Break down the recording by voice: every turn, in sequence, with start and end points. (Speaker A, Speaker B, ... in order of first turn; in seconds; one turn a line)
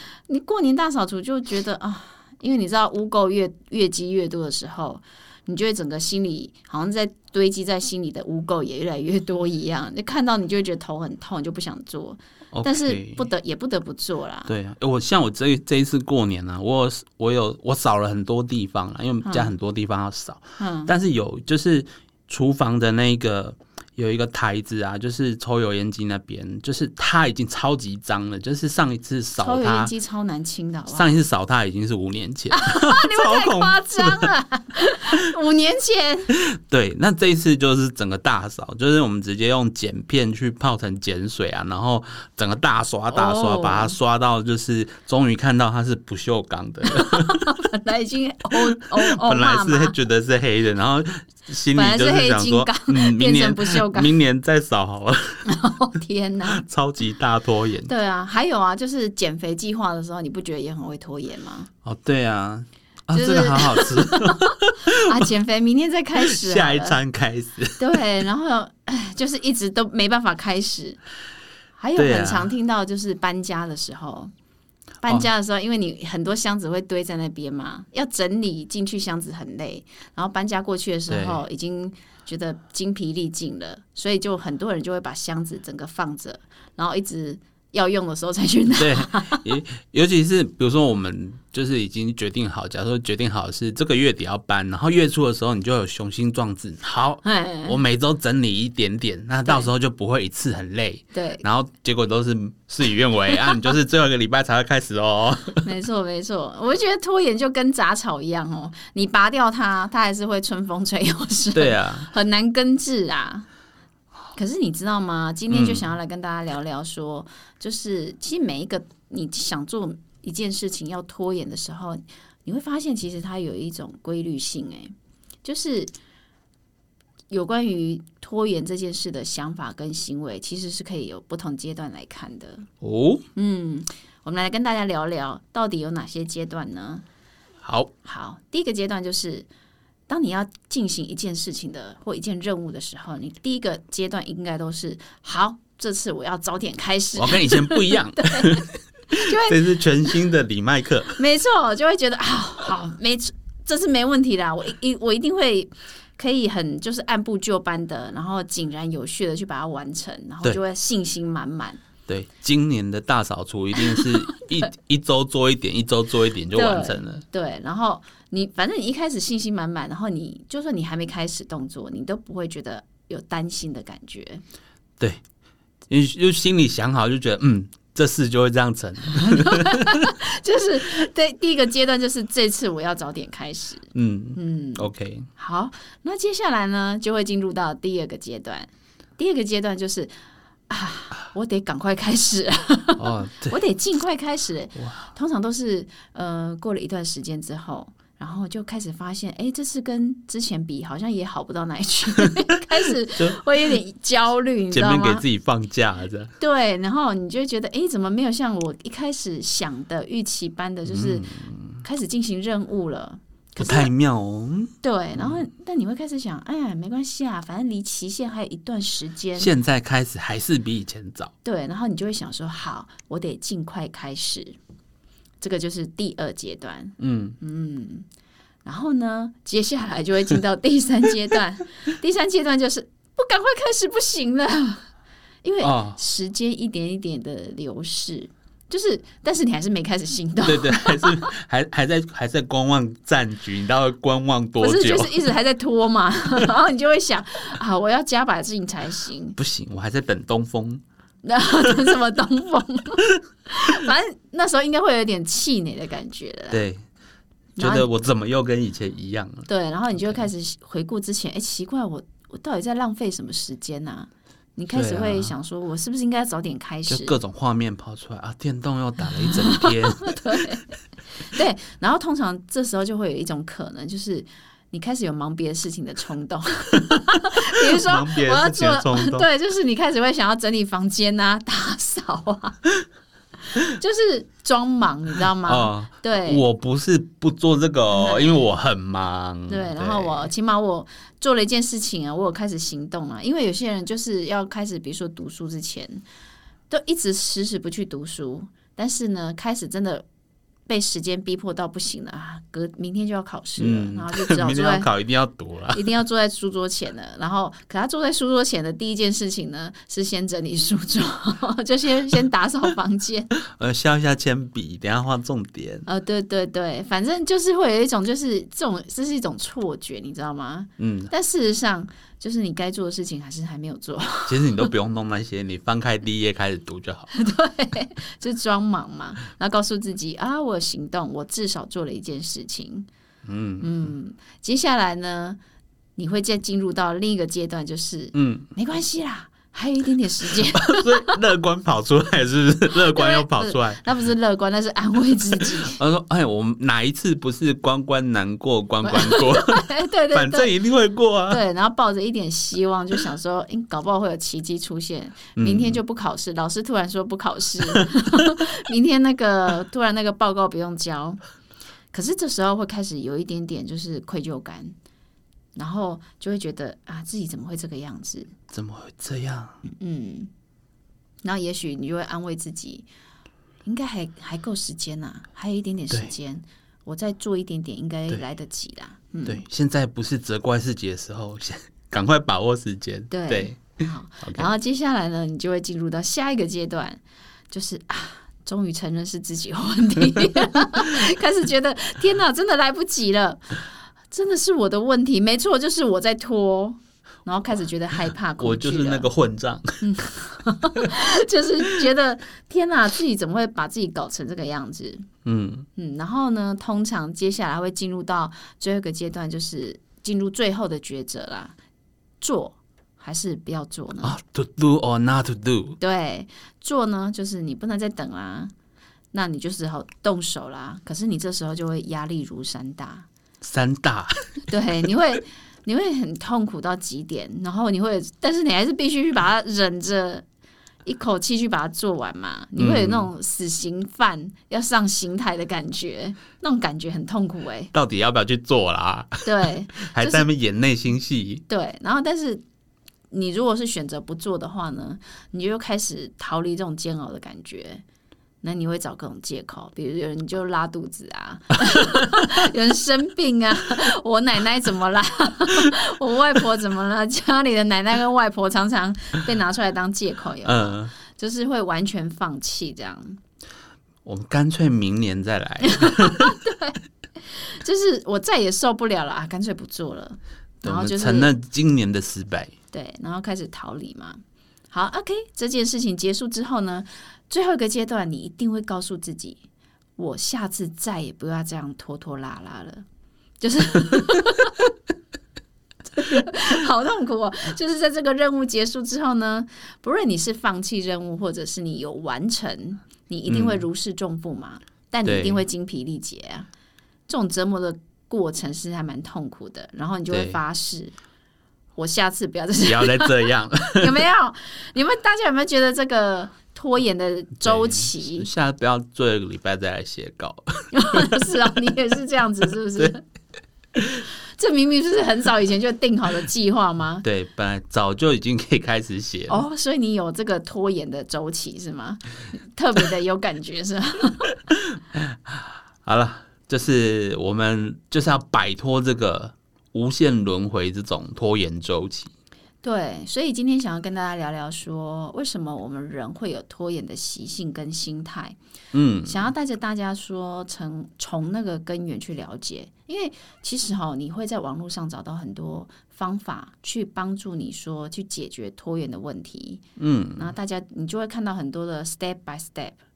Speaker A: 0.3-14.5
Speaker B: 12.5-13.2
Speaker B: 14.5-29.9
Speaker A: 19.2-19.5
Speaker A: 20.6-20.9
Speaker A: 29.4-31.1
Speaker B: 30.9-34.3
Speaker A: 32.5-36.3
Speaker B: 36.4-47.6
Speaker A: 43.1-43.9
Speaker A: 46.9-49.9
Speaker B: 48.5-55.4
Speaker A: 51.7-54.1
Speaker A: 55.4-56.6
Speaker B: 56.5-57.9
Speaker A: 57.8-61.7
Speaker B: 61.8-65.2
Speaker A: 63.1-67.0
Speaker B: 66.2-68.0
Speaker A: 67.8-71.0
Speaker A: 71.8-74.3
Speaker B: 72.0-72.5
Speaker A: 75.0-89.5
Speaker B: 81.1-81.4
Speaker B: 88.8-105.7
Speaker A: 97.2-97.8
Speaker A: 101.1-101.4
Speaker A: 105.6-113.5
Speaker B: 111.5-112.1
Speaker A: 114.3-125.9
Speaker B: 115.5-115.8
Speaker A: 127.3-132.7
Speaker B: 132.8-133.2
Speaker A: 133.3-137.0
Speaker B: 137.6-137.9
Speaker A: 138.0-139.5
Speaker A: 140.1-150.1
Speaker B: 147.2-151.1
Speaker A: 151.1-161.8
Speaker B: 162.1-167.2
Speaker A: 166.5-174.4
Speaker B: 175.9-180.1
Speaker A: 179.2-190.1
Speaker B: 183.9-185.3
Speaker A: 190.7-205.2
Speaker B: 193.0-193.6
Speaker B: 194.8-195.1
Speaker B: 203.2-203.7
Speaker B: 204.7-206.3
Speaker A: 206.4-213.9
Speaker B: 210.9-211.8
Speaker B: 213.6-215.4
Speaker A: 214.8-219.5
Speaker B: 219.4-221.3
Speaker A: 221.4-224.6
Speaker A: 225.4-228.1
Speaker B: 227.0-227.4
Speaker A: 228.6-234.9
Speaker A: 235.4-241.3
Speaker B: 235.6-236.0
Speaker B: 240.4-245.2
Speaker A: 244.6-249.4
Speaker B: 249.4-250.8
Speaker A: 251.2-256.6
Speaker B: 256.5-256.8
Speaker A: 257.6-257.9
Speaker B: 257.6-259.5
Speaker A: 259.5-267.1
Speaker B: 260.0-260.2
Speaker B: 264.7-265.3
Speaker B: 266.9-270.5
Speaker A: 269.3-270.7
Speaker A: 271.2-282.6
Speaker B: 277.3-279.3
Speaker A: 283.5-286.4
Speaker B: 285.4-290.3
Speaker A: 287.9-288.4
Speaker A: 289.5-296.0
Speaker A: 296.7-300.1
Speaker A: 300.7-304.9
Speaker B: 303.6-305.9
Speaker A: 305.7-313.3
Speaker B: 313.4-315.9
Speaker A: 315.9-324.7
Speaker B: 320.8-321.1
Speaker B: 324.3-327.1
Speaker A: 327.1-332.9
Speaker B: 333.2-333.9
Speaker A: 333.6-335.4
Speaker A: 336.0-341.2
Speaker B: 338.1-338.5
Speaker B: 340.3-343.8
Speaker A: 342.9-345.8
Speaker B: 345.5-351.4
Speaker A: 348.8-350.5
Speaker A: 351.3-361.2
Speaker B: 355.4-355.8
Speaker A: 361.9-364.8
Speaker A: 365.6-368.3
Speaker B: 368.5-369.6
Speaker A: 369.7-370.3
Speaker A: 371.2-372.9
Speaker A: 373.6-379.4
Speaker B: 379.2-384.5
Speaker A: 383.1-399.1
Speaker B: 398.4-399.9
Speaker A: 399.8-405.1
Speaker B: 405.2-405.7
Speaker A: 405.8-411.6
Speaker A: 412.2-414.2
Speaker B: 414.0-415.8
Speaker A: 415.8-418.5
Speaker A: 419.1-423.1
Speaker B: 423.4-424.5
Speaker A: 424.5-430.2
Speaker A: 430.8-437.7
Speaker B: 432.6-433.1
Speaker B: 437.7-441.4
Speaker A: 439.2-440.3
Speaker A: 441.5-442.4
Speaker A: 443.1-447.8
Speaker A: 448.4-463.2
Speaker B: 460.4-460.9
Speaker B: 464.1-466.4
Speaker A: 465.6-471.3
Speaker B: 470.6-472.5
Speaker A: 472.7-479.4
Speaker A: 480.0-482.8
Speaker A: 483.4-484.7
Speaker A: 485.9-496.5
Speaker B: 493.3-493.6
Speaker B: 495.1-495.4
Speaker A: 497.1-500.9
Speaker B: 500.1-500.4
Speaker A: 501.8-508.3
Speaker B: 502.6-504.1
Speaker B: 507.4-511.3
Speaker A: 510.7-513.0
Speaker A: 514.4-517.0
Speaker B: 517.0-519.4
Speaker A: 519.3-524.3
Speaker B: 524.5-532.1
Speaker A: 532.6-538.4
Speaker B: 538.7-539.2
Speaker A: 539.1-549.6
Speaker B: 549.8-550.3
Speaker A: 550.2-552.8